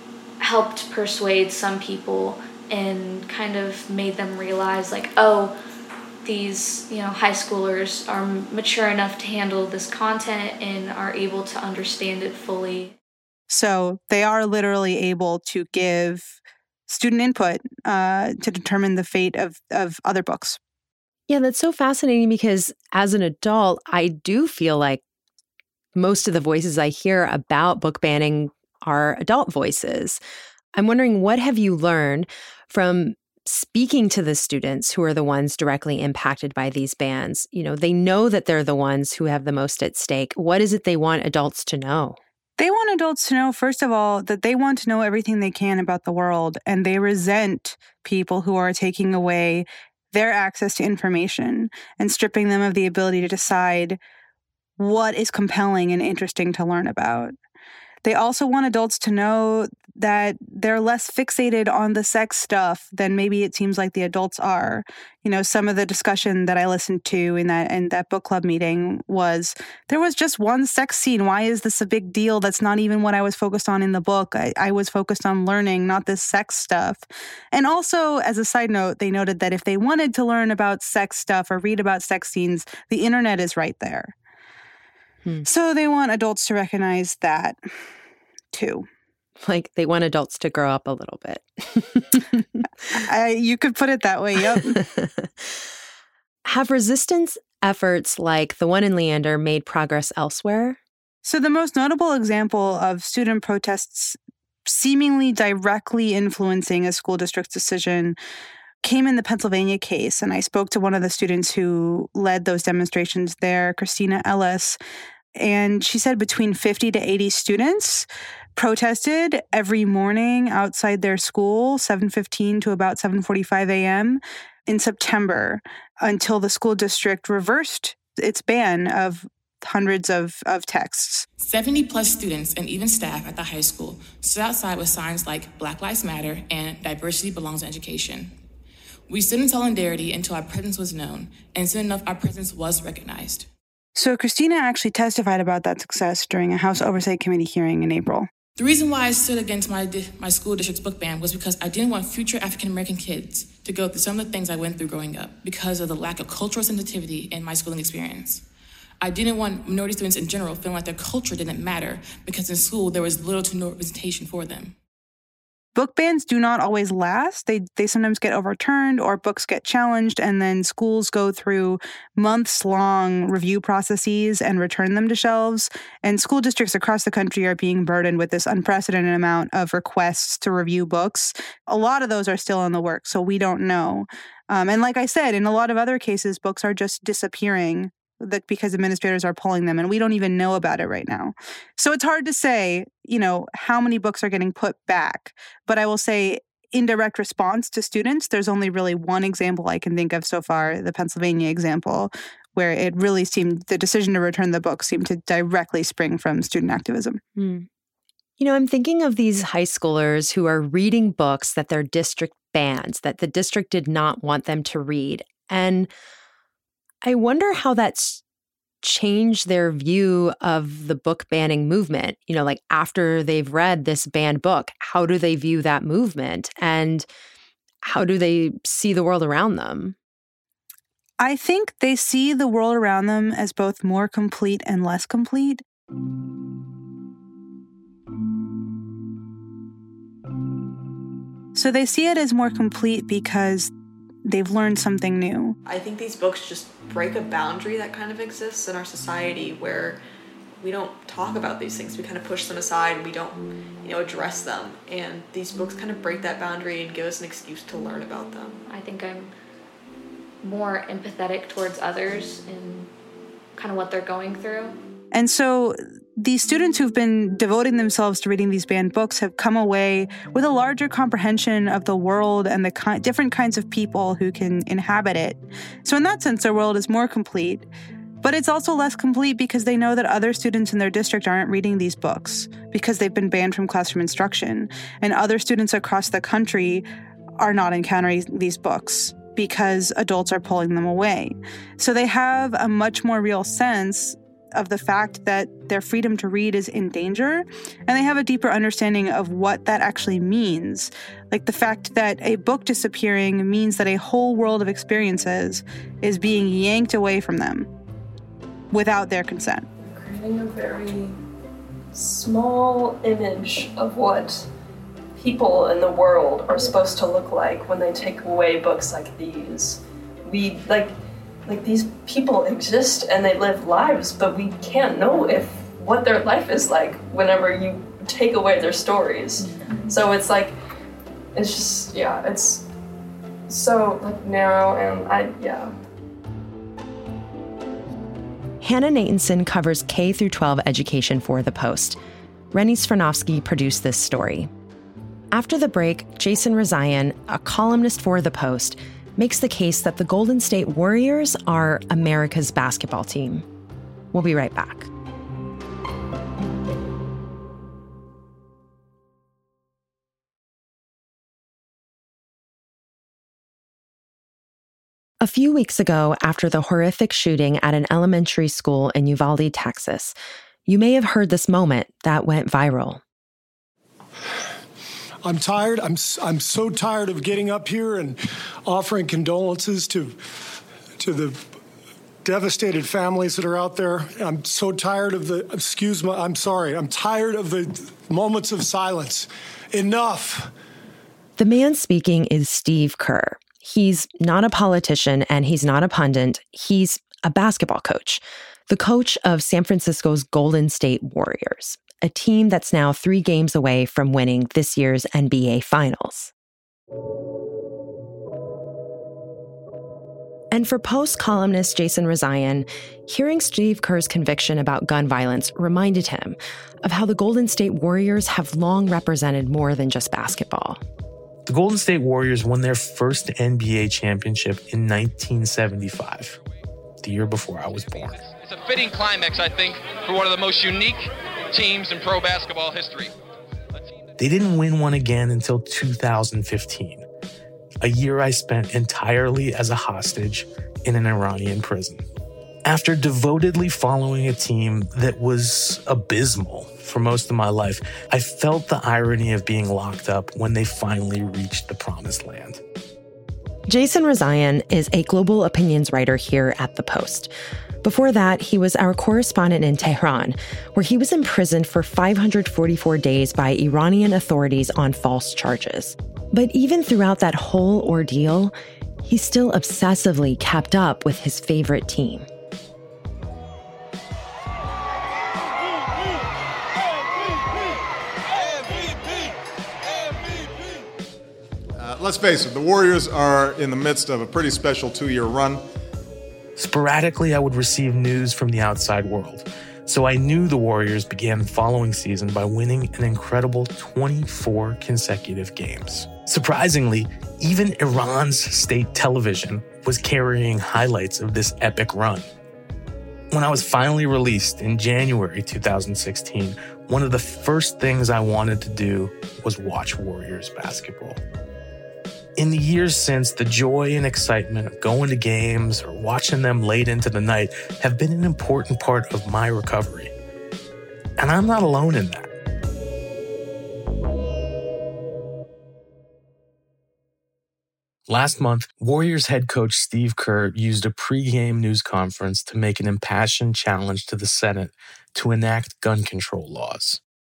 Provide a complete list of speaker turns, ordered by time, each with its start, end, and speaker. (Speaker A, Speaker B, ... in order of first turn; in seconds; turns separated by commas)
Speaker A: 0.4-5.5, Speaker A: 6.2-12.9, Speaker B: 13.5-20.6, Speaker C: 21.3-25.0, Speaker C: 25.9-30.2, Speaker C: 30.8-42.2, Speaker B: 42.6-54.0, Speaker B: 54.8-57.3, Speaker B: 58.0-84.1, Speaker B: 85.4-87.6, Speaker B: 88.5-88.9, Speaker C: 89.5-92.6, Speaker B: 92.9-94.8, Speaker C: 94.5-95.6, Speaker C: 96.5-100.8, Speaker B: 101.2-108.2, Speaker B: 108.8-114.8, Speaker B: 115.4-131.2, Speaker D: 131.4-138.4, Speaker D: 139.1-143.5, Speaker B: 143.9-148.3, Speaker D: 148.6-158.4, Speaker D: 159.0-164.7, Speaker B: 165.7-207.2, Speaker C: 207.3-207.7, Speaker C: 208.4-215.9, Speaker C: 217.0-218.2, Speaker C: 218.8-227.1, Speaker C: 227.8-229.9, Speaker B: 231.2-235.6, Speaker B: 241.5-243.7, Speaker B: 244.2-245.6, Speaker E: 245.7-250.0, Speaker E: 250.6-258.6, Speaker A: 258.7-259.3, Speaker A: 260.4-262.9, Speaker A: 263.5-264.8, Speaker B: 265.1-277.7, Speaker B: 278.2-286.9, Speaker B: 287.4-307.7, Speaker B: 308.7-309.6, Speaker F: 309.8-311.2, Speaker F: 311.9-314.5, Speaker F: 315.1-320.9, Speaker F: 321.4-330.5, Speaker F: 331.3-332.6, Speaker F: 333.5-335.8, Speaker C: 338.6-342.0, Speaker C: 342.5-344.5, Speaker C: 345.3-353.4, Speaker C: 354.1-354.9, Speaker C: 365.2-370.1, Speaker C: 370.7-373.0, Speaker G: 375.2-380.2, Speaker G: 381.0-381.4, Speaker G: 382.2-390.5, Speaker C: 391.4-406.3, Speaker C: 410.5-420.8, Speaker H: 421.5-426.4, Speaker H: 427.0-428.2, Speaker I: 428.2-433.1, Speaker H: 434.2-437.0, Speaker H: 437.8-442.0, Speaker H: 442.6-452.6, Speaker C: 453.7-472.3, Speaker J: 481.8-485.6, Speaker H: 486.6-502.3, Speaker H: 503.3-511.2, Speaker H: 512.4-520.1, Speaker H: 521.2-522.3, Speaker H: 528.1-537.0